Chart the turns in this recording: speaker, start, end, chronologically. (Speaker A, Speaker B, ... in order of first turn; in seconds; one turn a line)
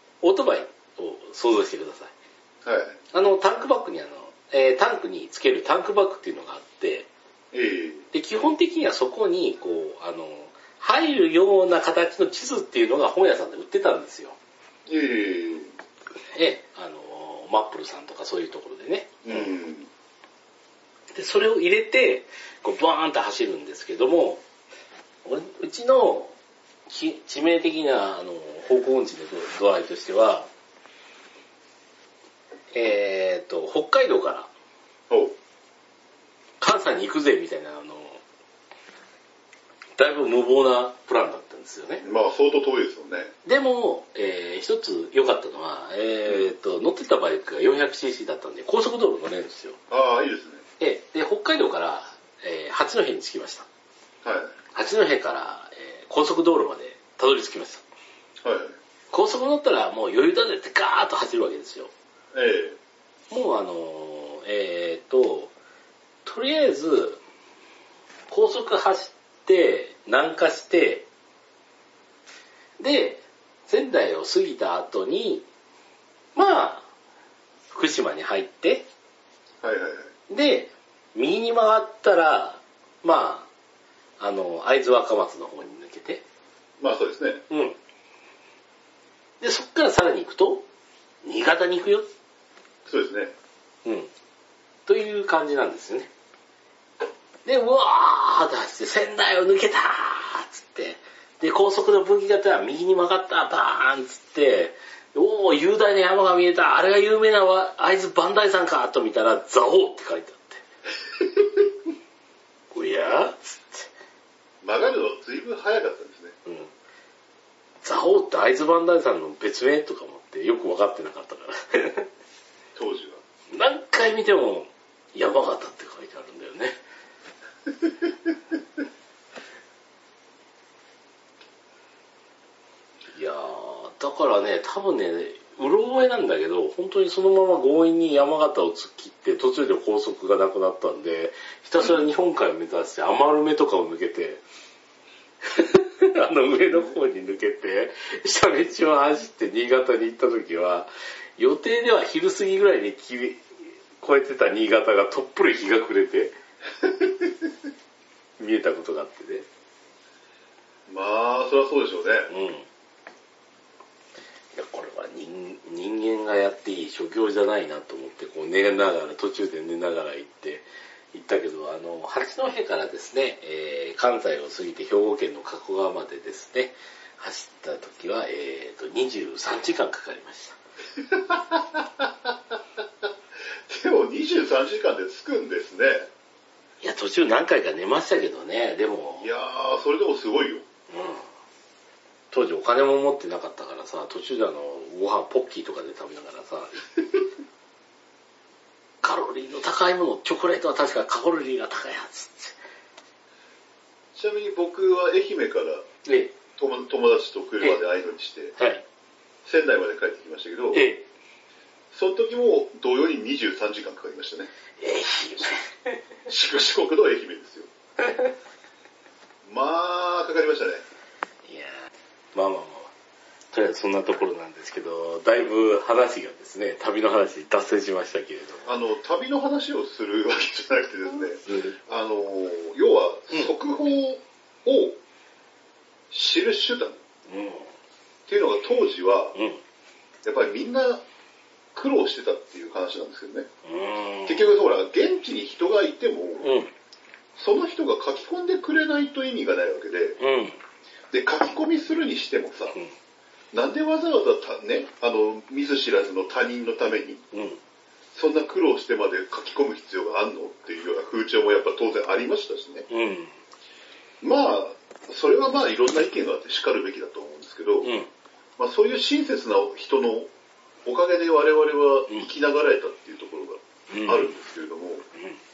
Speaker A: 0.2-2.1
Speaker B: 2.6-3.0
Speaker A: 3.1-7.1
Speaker B: 7.5-8.1
Speaker A: 8.1-14.4
Speaker B: 14.9-15.7
Speaker A: 16.3-19.5
Speaker B: 19.2-19.9
Speaker A: 21.1-24.4
Speaker A: 25.2-26.3
Speaker A: 26.9-30.5
Speaker A: 32.7-34.5
Speaker B: 35.1-35.3
Speaker A: 36.6-38.2
Speaker A: 40.0-42.0
Speaker B: 42.0-43.3
Speaker A: 43.4-49.8
Speaker B: 49.9-50.6
Speaker A: 50.8-53.7
Speaker B: 54.2-54.5
Speaker A: 54.7-57.8
Speaker B: 58.4-58.8
Speaker A: 59.1-61.9
Speaker B: 62.3-62.8
Speaker A: 63.3-65.5
Speaker A: 66.2-67.2
Speaker A: 68.3-71.1
Speaker A: 72.8-75.5
Speaker A: 76.3-76.9
Speaker A: 77.7-78.9
Speaker B: 79.6-80.1
Speaker A: 80.3-83.5
Speaker A: 84.2-86.2
Speaker B: 86.8-87.4
Speaker A: 87.5-87.8
Speaker A: 89.4-90.7
Speaker A: 91.2-92.1
Speaker B: 92.8-93.3
Speaker A: 93.8-94.1
Speaker A: 94.8-96.1
Speaker A: 97.4-110.6
Speaker A: 112.7-113.9
Speaker B: 114.6-116.4
Speaker A: 116.4-116.7
Speaker A: 117.8-122.1
Speaker B: 122.7-123.2
Speaker A: 123.5-126.8
Speaker A: 133.1-144.4
Speaker A: 145.4-153.4
Speaker A: 154.0-156.3
Speaker A: 158.4-159.4
Speaker B: 160.9-162.3
Speaker A: 162.3-162.7
Speaker A: 164.5-180.6
Speaker B: 181.0-183.1
Speaker B: 183.7-186.1
Speaker A: 186.8-189.3
Speaker B: 189.2-190.7
Speaker A: 190.9-191.2
Speaker A: 192.3-196.9
Speaker A: 199.0-202.6
Speaker B: 204.1-205.8
Speaker A: 206.0-206.3
Speaker B: 206.6-208.5
Speaker A: 208.6-208.8
Speaker B: 209.4-210.8
Speaker A: 210.7-211.0
Speaker B: 211.9-214.5
Speaker A: 214.8-216.0
Speaker B: 216.3-217.7
Speaker A: 218.0-218.3
Speaker B: 219.4-220.8
Speaker A: 221.4-221.8
Speaker A: 222.3-222.9
Speaker A: 223.5-228.7
Speaker B: 228.7-235.0
Speaker A: 231.4-231.8
Speaker B: 236.1-237.0
Speaker A: 237.3-237.7
Speaker B: 238.3-239.4
Speaker A: 239.3-239.6
Speaker B: 240.2-241.0
Speaker B: 241.7-243.5
Speaker A: 243.6-244.5
Speaker B: 244.2-246.6
Speaker A: 246.4-246.7
Speaker B: 247.3-250.2
Speaker A: 250.2-250.6
Speaker B: 251.1-252.8
Speaker B: 253.5-257.2
Speaker A: 257.3-257.6
Speaker B: 258.1-262.9
Speaker A: 262.9-263.3
Speaker B: 264.2-267.9
Speaker A: 267.8-268.1
Speaker B: 268.6-270.3
Speaker B: 270.8-275.1
Speaker A: 273.9-274.3